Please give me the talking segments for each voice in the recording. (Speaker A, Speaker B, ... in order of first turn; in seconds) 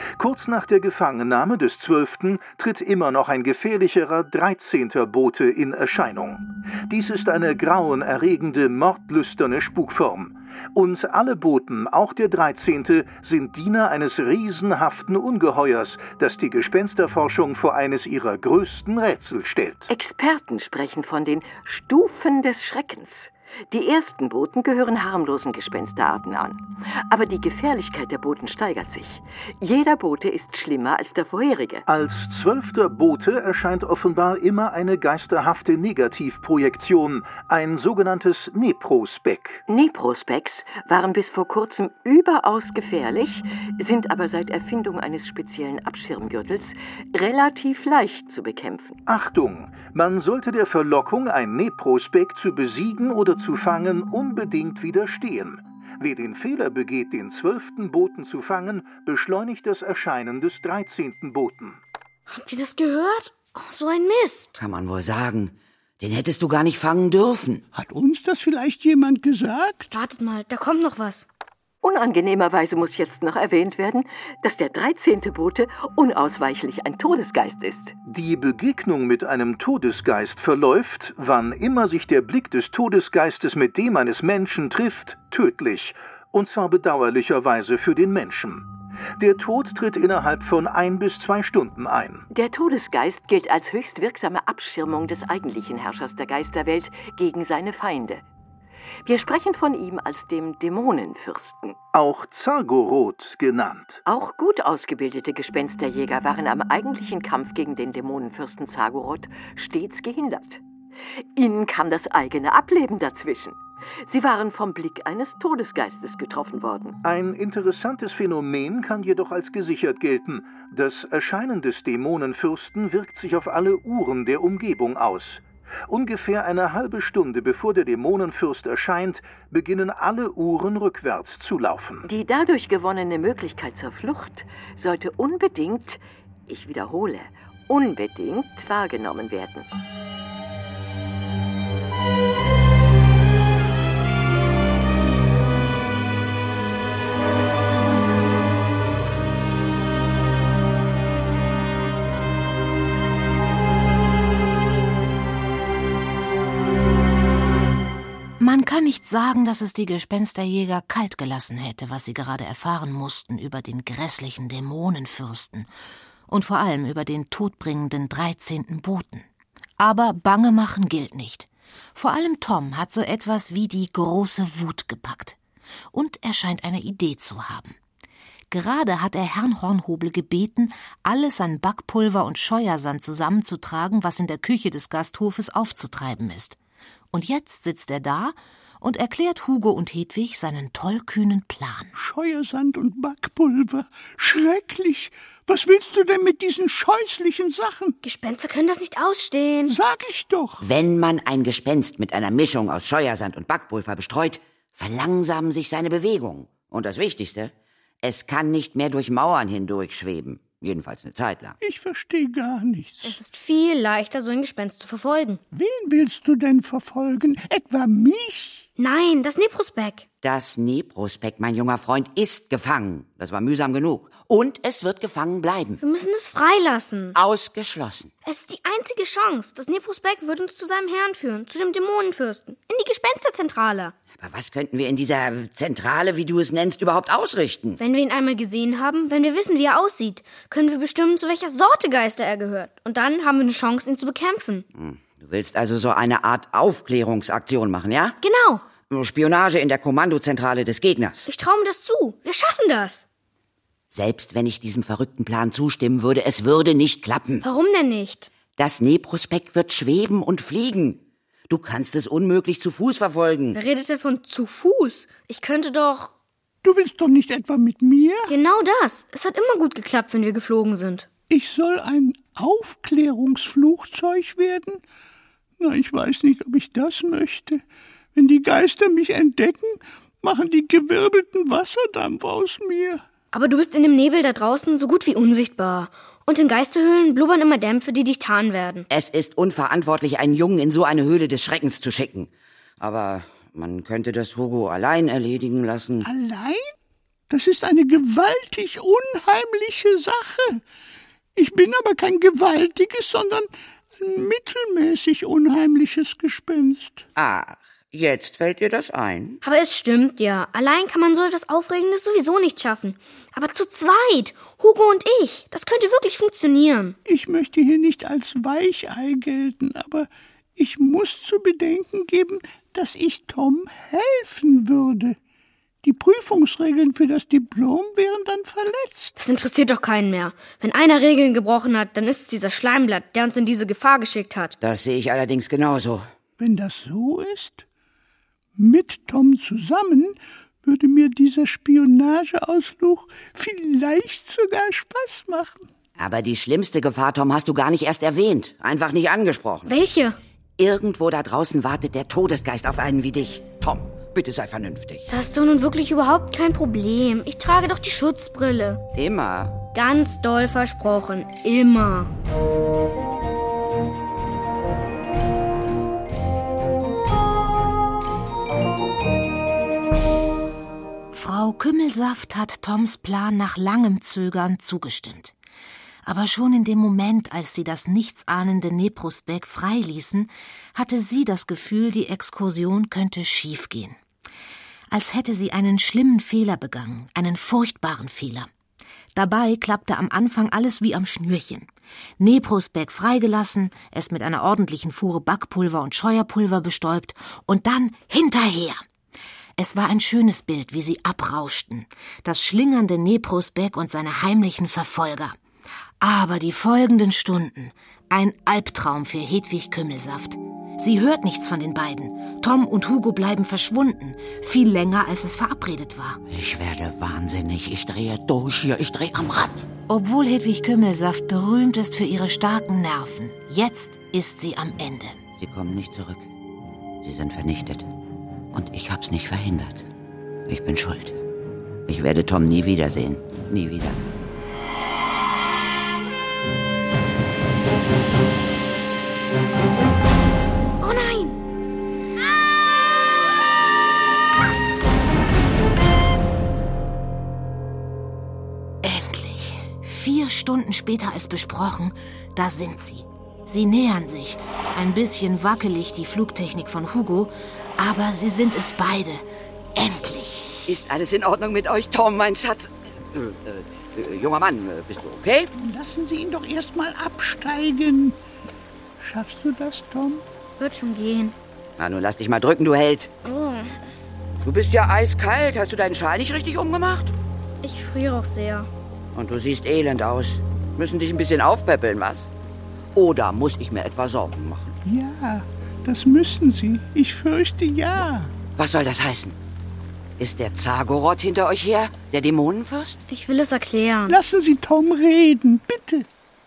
Speaker A: 0.2-19.9, 31.9-39.6, 49.1-61.8, 78.0-88.7, 89.2-92.3, 101.9-104.0, 117.0-132.1
Speaker B: 19.9-31.8, 39.7-49.0, 71.8-78.0, 92.3-98.2, 99.0-101.8, 104.1-110.6, 111.4-117.0, 132.1-139.7
Speaker C: 62.3-64.5, 69.9-71.3, 198.0-199.8, 213.0-215.4, 218.8-220.1, 225.8-227.2, 228.2-233.9, 237.8-244.7, 248.2-248.6, 251.3-253.1, 257.4-258.3, 263.5-266.1, 268.3-271.1, 283.3-288.9, 309.4-317.0, 329.2-334.6, 349.7-350.2, 355.1-358.8, 359.7-362.1, 440.8-441.4, 470.6-471.4, 473.2-473.8, 477.6-478.7, 493.1-494.2
Speaker D: 64.6-67.6, 200.6-211.6, 220.2-225.8, 227.2-228.1, 234.2-237.8, 244.8-248.2, 248.9-251.3, 253.9-257.4, 258.6-263.6, 288.9-296.1, 307.2-309.4, 334.6-336.1, 346.0-349.7, 350.6-355.1, 358.9-359.6, 416.3-419.7, 425.4-426.3, 427.0-427.9, 428.5-429.9, 430.5-431.2, 431.9-434.0, 460.7-465.5, 471.8-473.1, 474.4-477.1, 479.1-482.3, 482.9-484.8, 488.6-489.4, 490.2-493.0
Speaker E: 67.7-69.9, 192.0-198.0, 199.7-200.6, 211.6-213.2, 215.5-218.7, 266.6-268.3, 271.3-274.8, 275.6-277.6, 278.1-283.0, 296.0-296.6, 297.3-300.6, 301.4-307.1, 317.1-325.2, 325.8-329.2, 336.4-337.6, 338.6-345.7, 465.6-468.2, 469.0-470.2, 484.9-488.3, 494.1-496.1
Speaker F: 158.4-165.7, 166.3-169.3, 169.8-175.4, 175.9-177.8, 178.5-186.6, 187.1-191.9, 371.1-375.3, 376.1-384.0, 384.9-388.5, 389.1-391.7, 392.2-398.8, 399.6-405.4, 406.0-416.2, 419.9-425.2, 448.8-459.2, 459.8-460.5